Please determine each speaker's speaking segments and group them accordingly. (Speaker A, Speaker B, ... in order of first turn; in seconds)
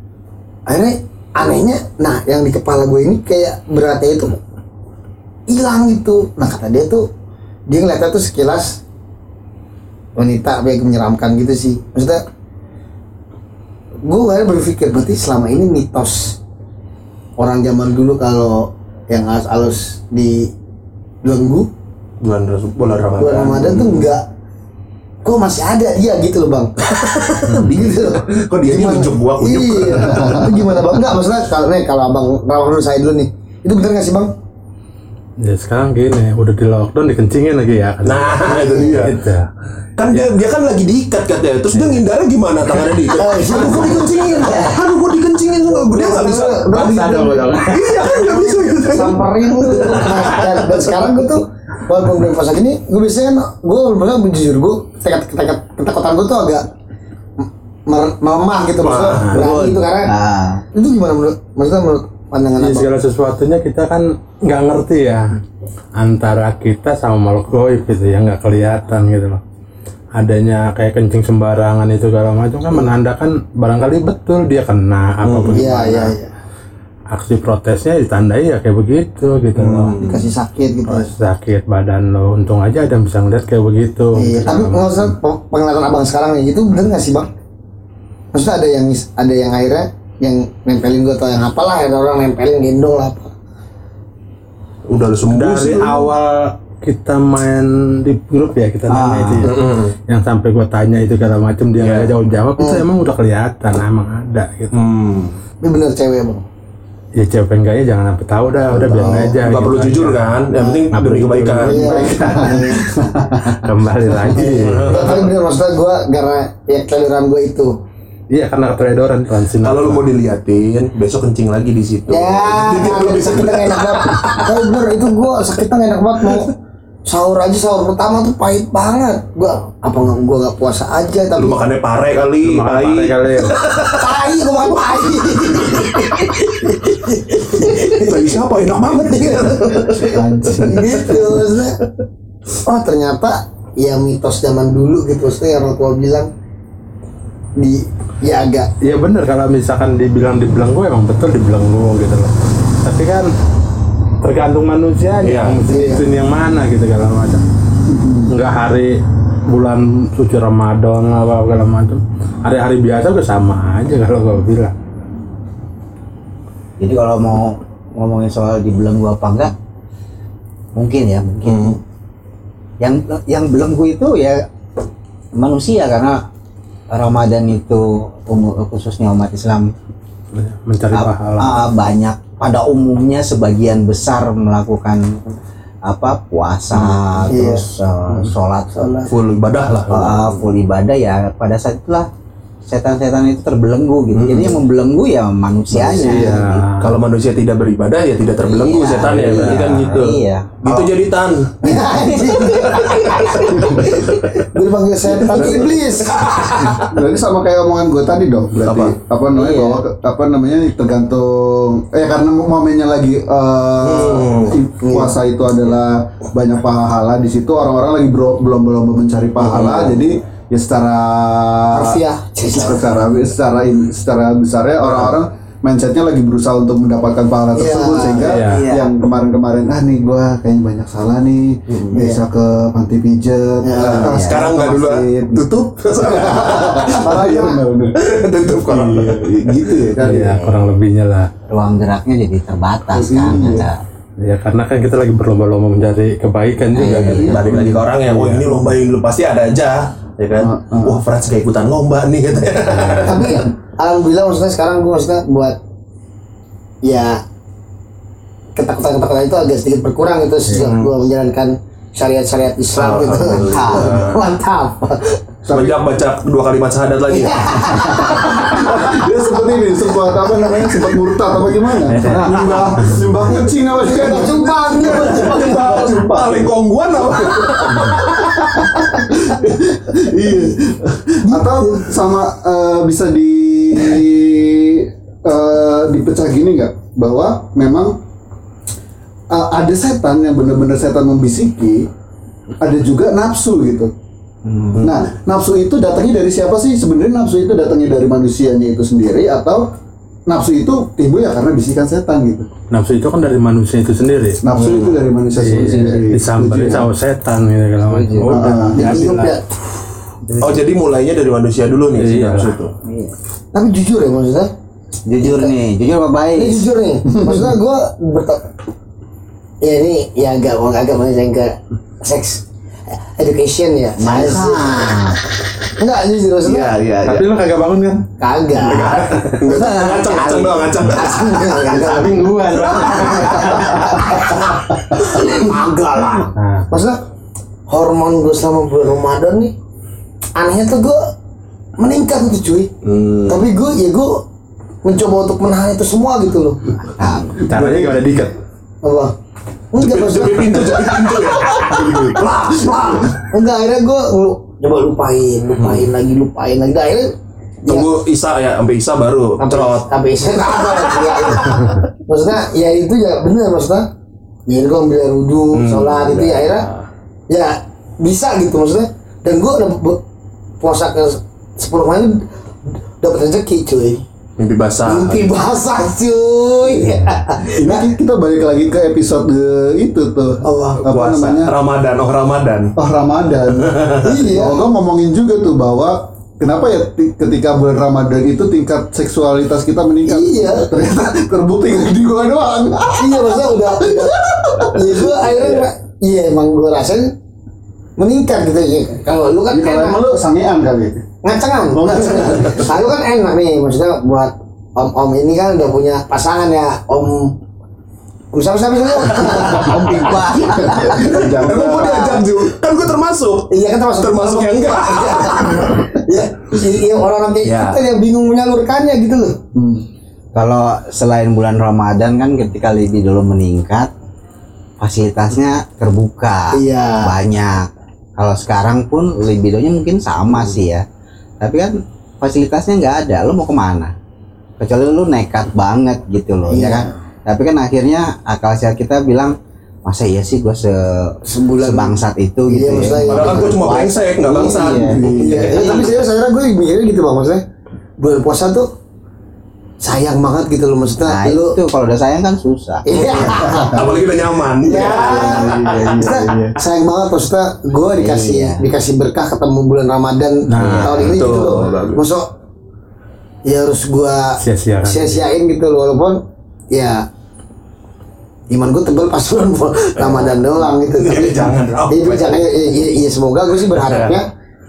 Speaker A: 0.7-4.4, 5.5-7.0, 7.7-8.8, 10.2-12.2, 14.1-16.4, 17.4-20.5, 21.2-21.7, 23.2-24.2, 25.2-34.3, 43.1-56.7, 57.4-60.1, 60.7-62.9, 75.5-76.3, 80.0-81.1, 84.2-87.3, 88.3-93.3, 102.6-102.8, 105.6-106.4, 111.6-112.8, 114.2-117.7, 122.1-126.5, 127.1-131.6, 133.9-138.3, 138.9-139.7, 140.6-141.8, 142.6-146.3, 147.6-148.7, 155.7-156.0, 187.3-187.7, 188.7-189.1, 201.6-206.5, 214.8-215.2, 221.7-222.9, 227.6-228.3, 231.9-232.2, 233.6-234.1, 253.0-255.6, 256.8-257.2, 258.6-265.2, 267.1-269.0, 270.1-270.9, 272.1-272.5, 273.6-275.9, 281.3-281.8, 308.7-309.4, 313.5-314.5, 315.2-315.5, 316.4-318.4, 319.6-324.9, 325.7-326.8, 328.2-337.0, 337.7-339.5, 340.4-341.0, 341.8-342.7, 343.3-344.2, 344.8-346.8, 348.8-349.1, 349.7-357.1, 357.6-357.9, 359.4-363.9, 364.5-366.7, 367.3-370.0, 370.6-372.3, 373.0-374.0, 374.8-377.9, 380.4-380.9, 384.0-384.6, 390.1-390.7, 393.0-397.1, 398.0-400.0, 401.2-407.4, 408.3-410.6, 413.5-419.4, 426.5-427.1, 436.5-436.9, 441.2-443.8, 445.1-447.4, 448.0-448.7, 449.8-451.6, 452.9-454.0, 454.6-462.3, 463.4-466.2, 466.7-467.1, 468.5-474.3
Speaker B: 22.2-24.1, 27.0-30.5, 38.0-39.2, 40.0-50.9, 58.8-59.4, 75.2-75.7, 79.6-80.3, 94.9-96.1, 99.4-100.0, 101.8-102.1, 104.7-105.4, 108.9-112.0, 114.4-115.3, 119.6-124.5, 131.4-134.1, 135.3-136.3, 137.5-141.4, 155.2-155.7, 171.5-171.8, 186.7-187.1, 189.1-190.3, 194.1-194.6, 195.7-204.4, 205.3-206.9, 208.6-209.0, 213.8-214.6, 219.4-220.1, 224.8-225.2, 231.7-232.0, 233.8-239.8, 246.8-253.4, 260.5-260.9, 262.8-264.2, 265.5-269.0, 271.9-273.4, 274.6-279.1, 304.5-305.1, 310.4-312.7, 326.4-327.3, 328.6-331.6, 332.6-334.6, 342.8-343.4, 349.8-353.2, 355.6-355.9, 357.7-361.4, 365.5-366.9, 374.4-375.3, 380.9-382.8, 383.6-384.0, 411.0-415.8, 417.4-417.8, 443.0-445.8, 453.5-456.5, 460.6-462.0, 470.0-472.5, 473.8-474.1
Speaker C: 30.1-30.7, 108.7-109.3, 111.7-113.7, 140.0-140.9, 157.9-158.3, 205.3-205.8, 206.7-240.4, 242.9-243.7, 247.1-247.9, 250.4-251.0, 265.4-265.8, 267.7-288.0, 289.3-291.9, 292.6-293.9, 294.8-299.6, 300.3-302.5, 304.4-306.9, 308.2-309.1, 317.1-317.5, 347.4-348.4, 377.4-381.5, 382.8-395.6, 399.5-401.0, 401.7-402.9, 409.6-412.2, 419.5-419.9, 444.8-445.6, 453.4-453.7, 455.0-456.5
Speaker D: 35.4-39.5, 41.7-42.0, 46.8-47.6, 62.6-65.4, 66.0-69.4, 70.2-76.1, 77.1-80.0, 80.9-85.1, 95.3-104.8, 107.2-110.4, 110.9-111.9, 113.5-115.1, 118.3-120.1, 132.4-133.6, 148.8-153.3, 154.2-157.4, 158.3-164.7, 180.3-181.7, 195.8-196.9, 228.2-228.7, 240.0-241.3, 244.2-248.5, 302.7-304.4, 305.3-309.4, 312.0-312.5, 327.0-328.1, 331.5-334.1, 336.4-336.7, 347.5-348.3, 460.5-461.2, 464.4-465.2
Speaker E: 59.3-60.6, 98.9-99.5, 166.8-169.5, 170.8-171.8, 172.8-174.4, 175.4-176.2, 176.9-179.7, 180.9-185.1, 185.9-189.0, 189.9-192.1, 192.7-196.7, 198.4-200.9, 201.7-204.2, 209.3-209.8, 228.4-228.9, 234.1-234.4, 240.2-240.7, 241.5-243.8, 246.8-247.3, 307.9-308.5, 315.1-316.7, 324.0-325.2, 346.9-347.4, 409.6-411.0, 411.8-412.1, 420.3-423.9, 424.8-430.9, 431.4-433.9, 434.6-439.4, 439.9-446.0, 451.1-453.5, 458.0-458.7, 460.6-461.1